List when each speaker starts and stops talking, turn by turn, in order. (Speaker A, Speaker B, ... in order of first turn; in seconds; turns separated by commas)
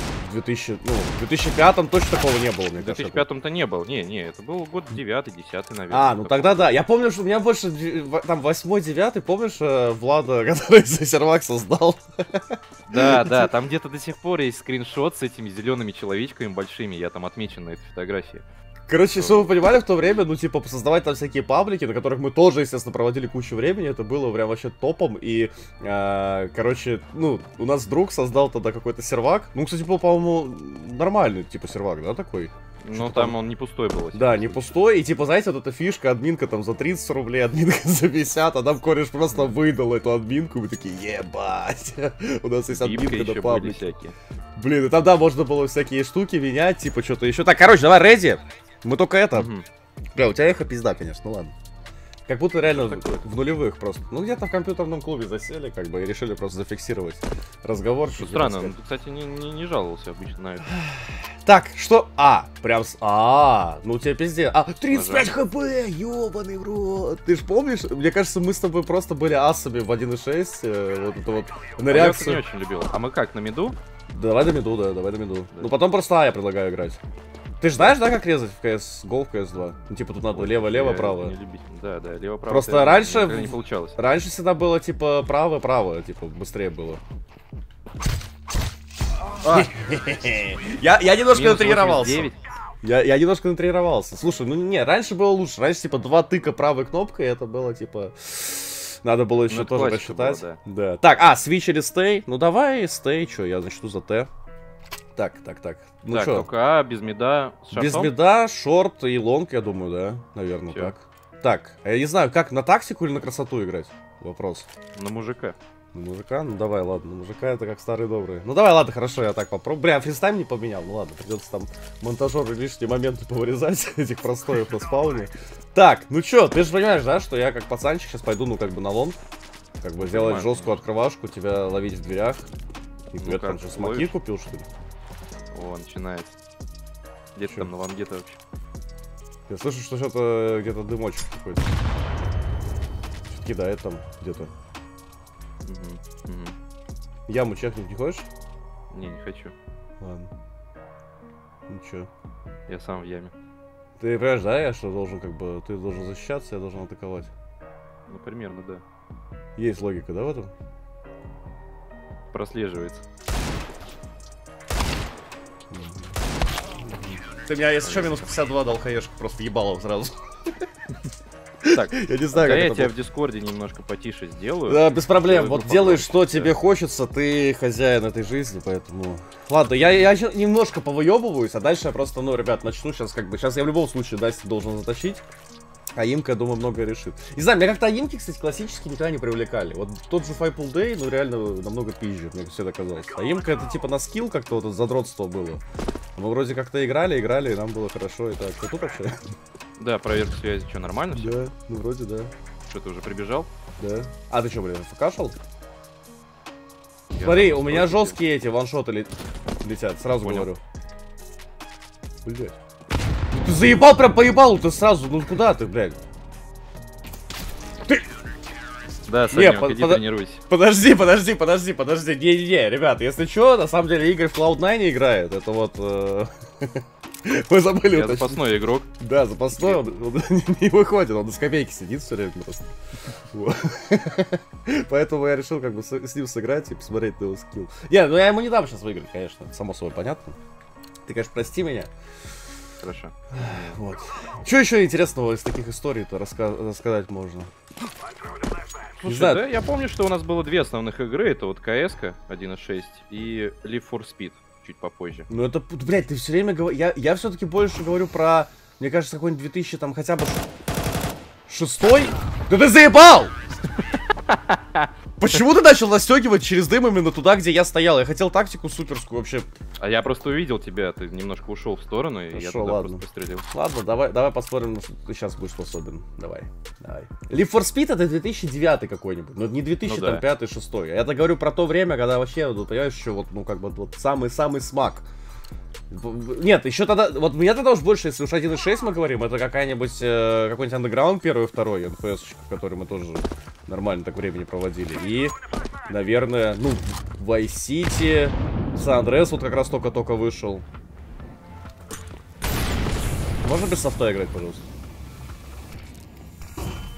Speaker A: 0.2-3.3, Speaker B: 2.8-6.7, Speaker A: 5.9-13.5, Speaker B: 12.9-18.4, Speaker A: 18.9-33.4, Speaker B: 19.1-19.5, Speaker B: 32.8-34.6, Speaker A: 34.1-43.9, Speaker B: 42.7-44.1, Speaker A: 44.6-49.5, Speaker B: 49.3-49.7, Speaker A: 50.1-51.5, Speaker A: 52.3-58.7, Speaker B: 52.6-53.2, Speaker B: 58.1-60.7, Speaker A: 60.7-72.4, Speaker B: 64.9-65.3, Speaker B: 71.9-73.8, Speaker A: 74.1-77.0, Speaker A: 77.6-81.3, Speaker B: 80.3-84.0, Speaker A: 82.5-87.0, Speaker A: 89.4-92.3, Speaker B: 91.3-92.4, Speaker A: 92.8-104.3, Speaker B: 99.5-100.6, Speaker A: 105.2-106.5, Speaker B: 106.1-108.1, Speaker A: 107.7-114.7, Speaker B: 115.0-115.6, Speaker A: 115.9-129.2, Speaker A: 129.8-132.5, Speaker B: 130.0-130.8, Speaker A: 133.1-134.7, Speaker B: 133.2-134.1, Speaker B: 135.5-136.3, Speaker B: 137.3-138.4, Speaker A: 139.5-141.7, Speaker A: 143.3-144.5, Speaker B: 145.6-146.6, Speaker A: 147.3-148.3, Speaker B: 148.9-149.6, Speaker A: 150.0-150.3, Speaker A: 151.7-152.1, Speaker B: 152.7-153.3, Speaker A: 154.0-157.3, Speaker B: 158.1-158.8, Speaker A: 159.6-160.5, Speaker B: 162.3-163.0, Speaker A: 165.7-166.1, Speaker A: 166.8-170.2, Speaker B: 167.8-168.3, Speaker A: 171.6-172.9, Speaker B: 171.7-176.6, Speaker A: 174.7-185.2, Speaker A: 185.9-195.6, Speaker A: 196.2-199.2, Speaker B: 199.8-201.5, Speaker A: 201.1-202.3, Speaker B: 202.7-203.5, Speaker A: 203.8-205.4, Speaker B: 207.1-208.2, Speaker A: 207.2-210.6, Speaker B: 210.2-210.5, Speaker A: 212.2-212.6, Speaker A: 213.3-216.0, Speaker B: 219.1-220.4, Speaker A: 219.3-228.5, Speaker B: 227.9-228.9, Speaker A: 229.0-232.7, Speaker B: 229.6-230.0, Speaker A: 233.3-240.4, Speaker A: 241.1-241.9, Speaker B: 242.8-243.8, Speaker A: 243.3-247.5, Speaker B: 249.0-255.3, Speaker A: 249.0-249.4, Speaker A: 255.3-260.4, Speaker A: 261.5-263.3, Speaker B: 264.3-264.9, Speaker A: 265.2-269.5, Speaker B: 269.8-273.5, Speaker A: 272.3-285.1, Speaker B: 279.8-280.3, Speaker A: 285.9-295.4, Speaker A: 295.9-300.6, Speaker A: 303.4-304.6